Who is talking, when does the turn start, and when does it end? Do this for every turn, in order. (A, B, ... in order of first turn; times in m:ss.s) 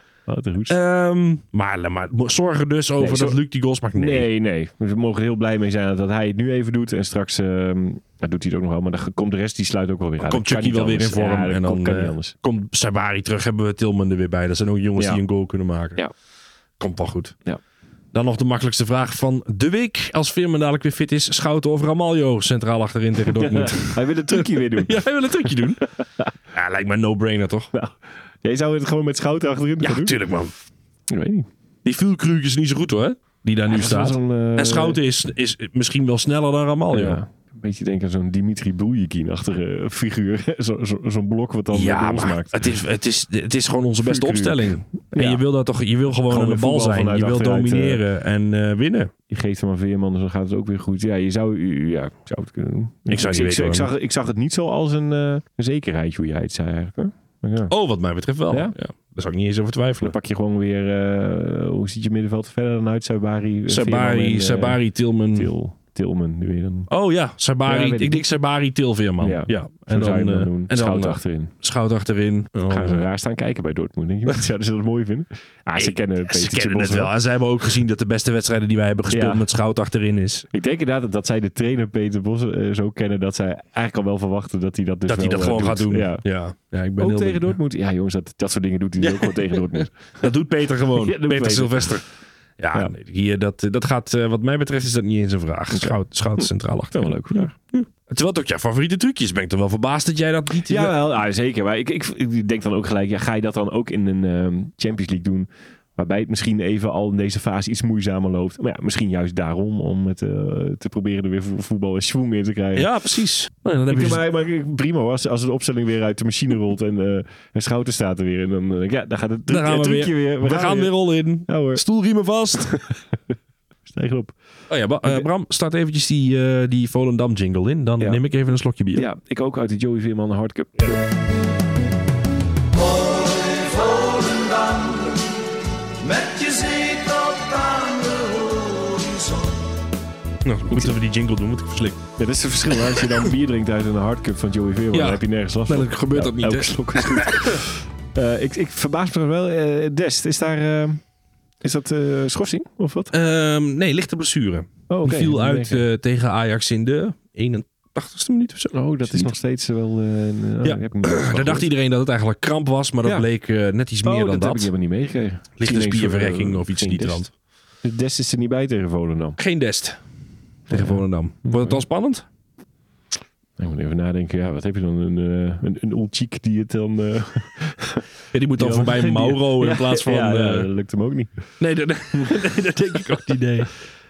0:00.3-0:00.8 A
0:00.7-0:04.3 B
0:03.0-0:03.4 A
0:04.0-0:12.3 A
0:10.2-0:16.0 B
0:16.8-0:17.4 B
0:18.1-0:25.8 B
0:23.3-0:25.5 A
0:26.5-0:27.7 B
0:27.7-0:30.2 A
0:29.8-0:30.5 B
0:31.1-0:31.5 A
0:31.8-0:37.2 B
0:33.7-0:35.0 A
0:36.9-0:42.7 A
0:41.7-0:49.1 B
0:44.0-0:45.4 A
0:46.3-0:48.0 A
0:49.3-0:57.7 A
0:53.1-0:53.9 B
0:57.7-1:00.2 B
1:00.0-1:04.8 A
1:03.7-1:05.5 B
1:05.3-1:06.9 A
1:06.9-1:13.1 B
1:07.6-1:08.2 A
1:09.2-1:11.5 A
1:12.7-1:17.1 A
1:15.8-1:20.5 B
1:19.1-1:19.5 A
1:20.5-1:26.2 A
1:25.1-1:27.6 B
1:27.0-1:30.3 A
1:29.0-1:32.0 B
1:30.9-1:32.0 A
1:32.6-1:40.9 B
1:35.7-1:37.5 A
1:40.6-1:52.9 A
1:52.8-1:54.2 B
1:53.9-2:00.9 A
1:59.5-2:02.8 B
2:01.5-2:01.8 A
2:02.6-2:03.0 A
2:03.9-2:04.4 A
2:04.7-2:09.1 B
2:08.9-2:11.0 A
2:12.9-2:15.2 C
2:16.0-2:19.5 C
2:20.4-2:22.0 B
2:22.2-2:31.0 A
2:24.9-2:27.6 B
2:31.6-2:33.1 A
2:33.1-2:39.4 B
2:34.9-2:35.8 A
2:38.7-2:41.7 A
2:40.6-2:44.7 B
2:44.0-2:47.2 A
2:45.6-2:47.3 B
2:47.8-2:49.4 A
2:49.4-2:50.0 B
2:50.7-2:52.2 B
2:50.7-2:51.8 A
2:53.6-2:58.1 A
2:58.3-3:00.7 B
2:58.6-3:01.3 A
3:01.6-3:03.7 B
3:02.1-3:02.5 A